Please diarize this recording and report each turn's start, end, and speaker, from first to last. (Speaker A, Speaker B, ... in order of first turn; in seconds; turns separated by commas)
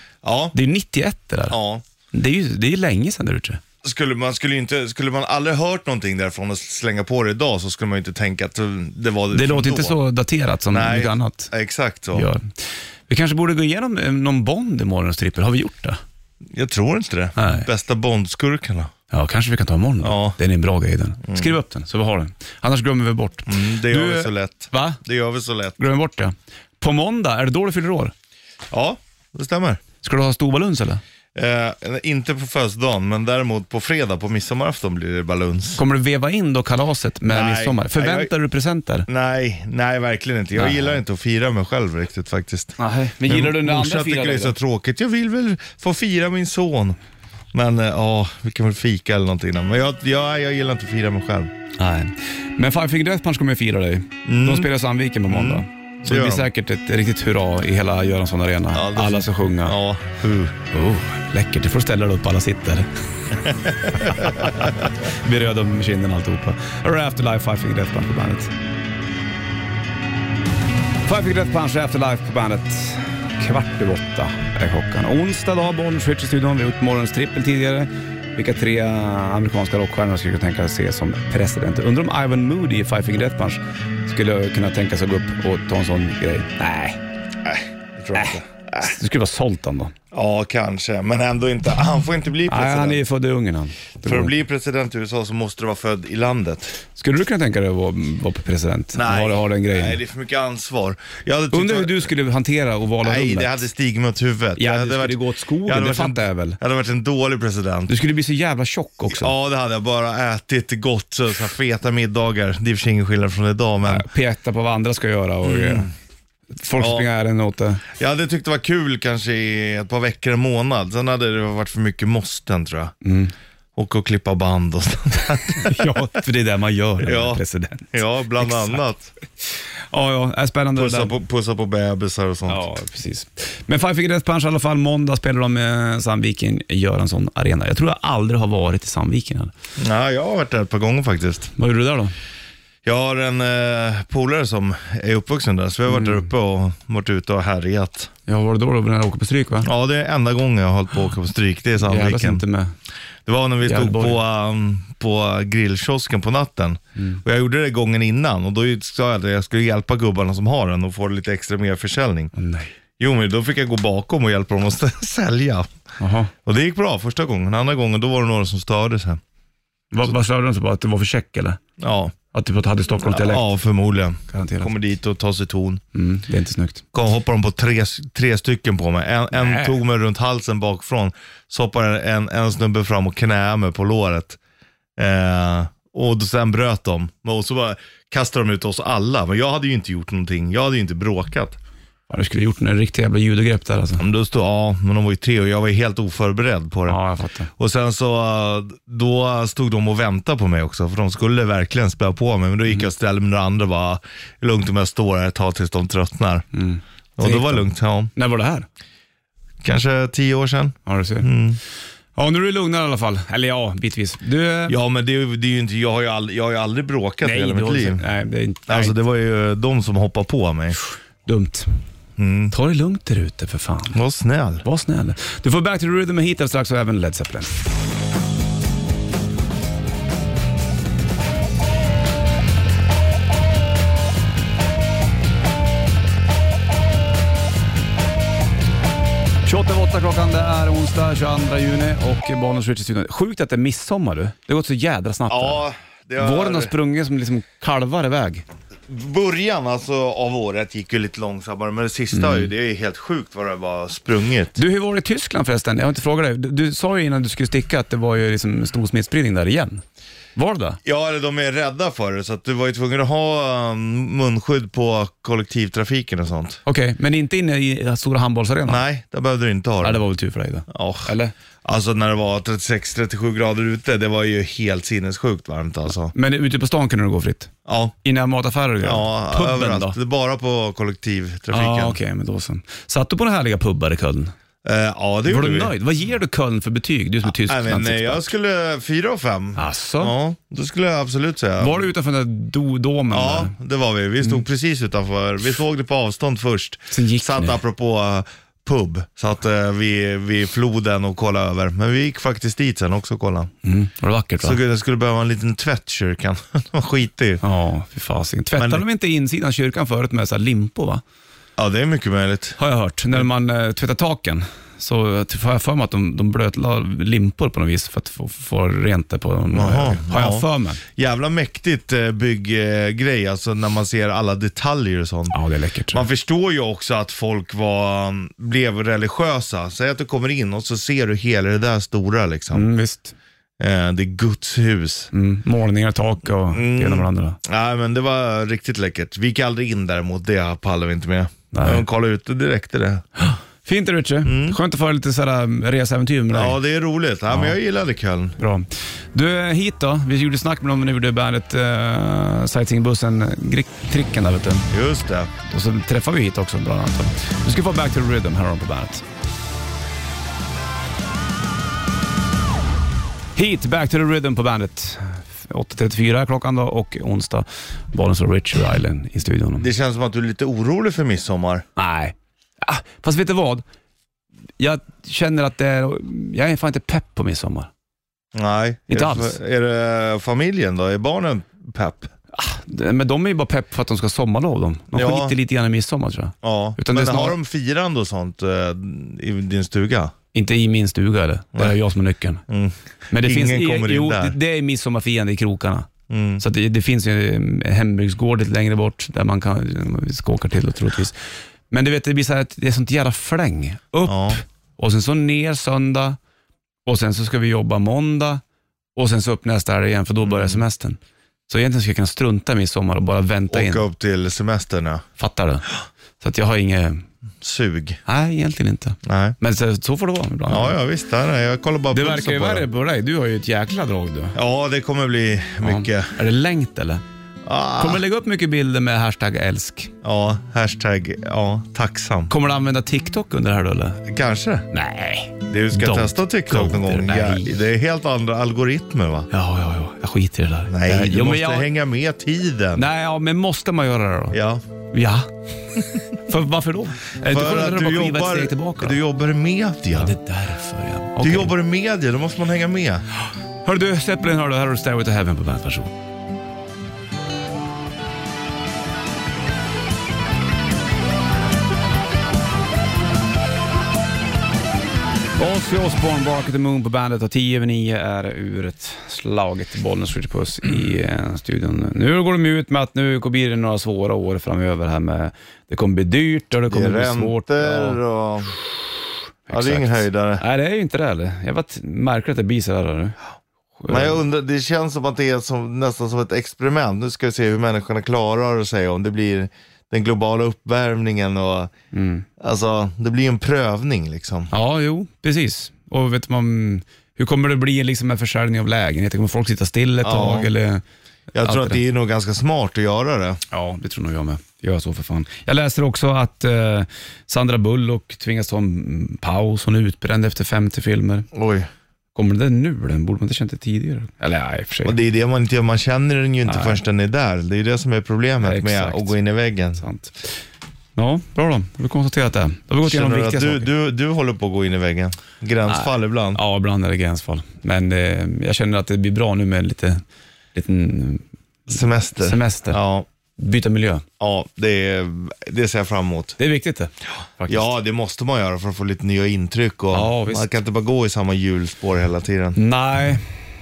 Speaker A: 0.2-0.6, Speaker B: 0.5-1.6, Speaker A: 1.5-1.8, Speaker B: 2.1-3.6, Speaker A: 3.8-10.0, Speaker B: 9.3-11.5, Speaker A: 10.7-12.3, Speaker B: 12.1-12.4, Speaker B: 13.1-16.0, Speaker A: 16.5-18.9, Speaker B: 17.4-17.7, Speaker B: 19.1-25.0, Speaker A: 20.0-20.4, Speaker A: 21.2-21.5, Speaker A: 23.5-25.8, Speaker B: 25.8-28.1, Speaker A: 28.7-29.8, Speaker B: 30.0-31.0, Speaker A: 31.3-35.8, Speaker B: 35.8-39.1, Speaker A: 37.3-38.3, Speaker A: 39.1-47.0, Speaker B: 40.5-41.0, Speaker B: 42.8-44.5, Speaker A: 47.5-51.5, Speaker B: 51.8-59.8, Speaker A: 54.2-54.7, Speaker A: 55.3-56.5, Speaker A: 58.7-60.5, Speaker B: 60.7-62.9, Speaker A: 63.5-64.7, Speaker B: 63.8-68.5, Speaker B: 71.0-87.0, Speaker A: 87.4-88.9, Speaker B: 88.1-89.9, Speaker A: 90.1-93.0, Speaker B: 92.5-94.3, Speaker A: 94.0-96.8, Speaker B: 97.0-100.0, Speaker A: 98.9-102.1, Speaker B: 101.5-103.6, Speaker A: 103.0-107.9, Speaker B: 104.6-106.6, Speaker B: 107.9-109.3, Speaker A: 109.1-114.1, Speaker B: 113.8-115.9, Speaker A: 115.4-115.9, Speaker B: 116.6-117.8, Speaker A: 116.8-117.1, Speaker A: 117.9-122.9, Speaker B: 123.0-123.3, Speaker A: 123.8-126.0, Speaker B: 125.5-128.8, Speaker A: 127.0-127.4, Speaker A: 127.9-129.1, Speaker B: 129.9-131.1, Speaker A: 130.8-132.6, Speaker B: 132.5-139.5, Speaker A: 139.8-141.5, Speaker B: 141.6-142.1, Speaker A: 142.8-148.1, Speaker B: 145.9-146.2, Speaker B: 148.3-149.7, Speaker A: 149.6-152.4, Speaker B: 151.8-152.7, Speaker A: 153.2-162.3, Speaker B: 153.6-154.2, Speaker B: 162.3-162.7, Speaker A: 163.0-165.7, Speaker B: 166.0-166.3, Speaker A: 166.4-169.2, Speaker B: 169.9-171.6, Speaker A: 171.8-172.1, Speaker B: 172.3-173.5, Speaker A: 173.0-175.8, Speaker B: 174.3-174.7, Speaker B: 175.9-176.8, Speaker A: 176.9-184.4, Speaker B: 179.3-179.8, Speaker A: 185.0-191.6, Speaker B: 192.1-194.0, Speaker A: 194.0-197.0, Speaker B: 196.9-197.5, Speaker A: 197.6-206.5, Speaker B: 206.5-208.7, Speaker A: 207.2-208.1, Speaker A: 209.6-211.6, Speaker B: 210.8-211.3, Speaker B: 212.2-214.8, Speaker A: 214.7-218.0, Speaker B: 217.2-218.9, Speaker A: 218.7-220.8, Speaker B: 221.2-221.7, Speaker A: 222.2-222.5, Speaker B: 222.5-224.0, Speaker A: 223.9-224.6, Speaker B: 224.6-227.5, Speaker B: 239.4-245.6, Speaker A: 245.3-246.7, Speaker B: 246.2-248.4, Speaker A: 248.9-254.6, Speaker B: 252.1-252.5, Speaker B: 254.6-259.8, Speaker B: 260.3-260.8, Speaker A: 260.8-266.6, Speaker B: 266.6-268.8, Speaker A: 268.6-270.0, Speaker B: 269.8-271.3, Speaker A: 270.7-271.1, Speaker A: 271.6-276.1, Speaker B: 276.1-277.5, Speaker A: 277.6-277.9, Speaker B: 278.0-279.9, Speaker A: 278.8-282.0, Speaker B: 281.5-284.3, Speaker A: 284.6-285.7, Speaker B: 285.2-288.3, Speaker A: 287.2-291.9, Speaker B: 289.6-290.1, Speaker B: 291.6-293.5, Speaker A: 293.1-303.5, Speaker B: 296.9-297.6, Speaker B: 303.6-304.6, Speaker A: 304.4-307.4, Speaker B: 307.4-311.0, Speaker A: 308.6-308.8, Speaker A: 311.6-312.6, Speaker B: 312.6-320.8, Speaker A: 319.5-325.4, Speaker B: 325.3-326.0, Speaker A: 325.9-332.7, Speaker B: 332.5-333.1, Speaker A: 333.6-335.1, Speaker B: 335.1-337.4, Speaker A: 336.5-343.0, Speaker B: 341.5-341.8, Speaker B: 343.2-346.6, Speaker A: 344.2-344.6, Speaker A: 346.3-348.4, Speaker B: 347.3-347.6, Speaker B: 348.4-354.7, Speaker A: 354.7-355.3, Speaker B: 355.4-359.0, Speaker B: 363.4-369.7, Speaker A: 369.6-371.6, Speaker B: 371.8-373.6, Speaker B: 374.6-377.7, Speaker A: 378.3-382.1, Speaker B: 378.9-379.4, Speaker B: 382.3-387.4, Speaker A: 384.9-385.3, Speaker A: 386.4-390.1, Speaker B: 390.3-392.4, Speaker A: 392.5-394.3, Speaker B: 393.1-395.9, Speaker A: 396.1-396.4, Speaker B: 396.4-401.2, Speaker B: 401.7-406.2, Speaker A: 404.0-404.4, Speaker B: 406.9-408.4, Speaker B: 408.9-413.9, Speaker A: 410.2-410.6, Speaker A: 413.5-415.0, Speaker B: 415.2-415.7, Speaker B: 416.2-417.0, Speaker A: 417.4-418.0, Speaker B: 418.1-420.8, Speaker A: 419.0-419.4, Speaker A: 420.5-422.7, Speaker B: 421.9-424.3, Speaker A: 424.3-426.1, Speaker B: 425.6-427.0, Speaker A: 427.4-428.0, Speaker B: 427.8-429.9, Speaker A: 430.0-432.3, Speaker B: 432.3-434.0, Speaker A: 434.1-434.6, Speaker B: 434.7-437.6, Speaker A: 435.5-439.3, Speaker B: 439.3-441.7, Speaker A: 440.7-442.9, Speaker B: 442.8-444.4, Speaker A: 444.3-444.6, Speaker B: 444.9-445.3, Speaker B: 446.2-449.0, Speaker A: 447.2-450.1, Speaker B: 449.9-451.5, Speaker A: 451.2-453.0, Speaker B: 453.6-455.9, Speaker B: 465.4-478.0, Speaker A: 476.6-478.6, Speaker A: 479.5-480.4, Speaker B: 479.5-483.1, Speaker B: 483.8-484.2, Speaker A: 483.9-491.7, Speaker B: 491.9-492.2, Speaker A: 492.4-494.5, Speaker B: 494.5-500.8, Speaker A: 500.0-500.5, Speaker A: 501.3-503.4, Speaker B: 501.4-501.8, Speaker B: 503.5-511.3, Speaker A: 511.3-511.7, Speaker B: 512.1-515.0, Speaker A: 514.8-519.8, Speaker B: 516.4-516.8, Speaker B: 518.4-519.1, Speaker B: 519.8-520.4, Speaker B: 521.0-523.7, Speaker A: 522.8-526.4, Speaker B: 525.7-530.0, Speaker B: 530.5-532.8, Speaker A: 531.7-533.0, Speaker B: 533.4-534.0, Speaker A: 534.2-536.4, Speaker B: 536.4-537.7, Speaker A: 537.5-542.6, Speaker B: 539.9-540.5, Speaker B: 542.5-543.2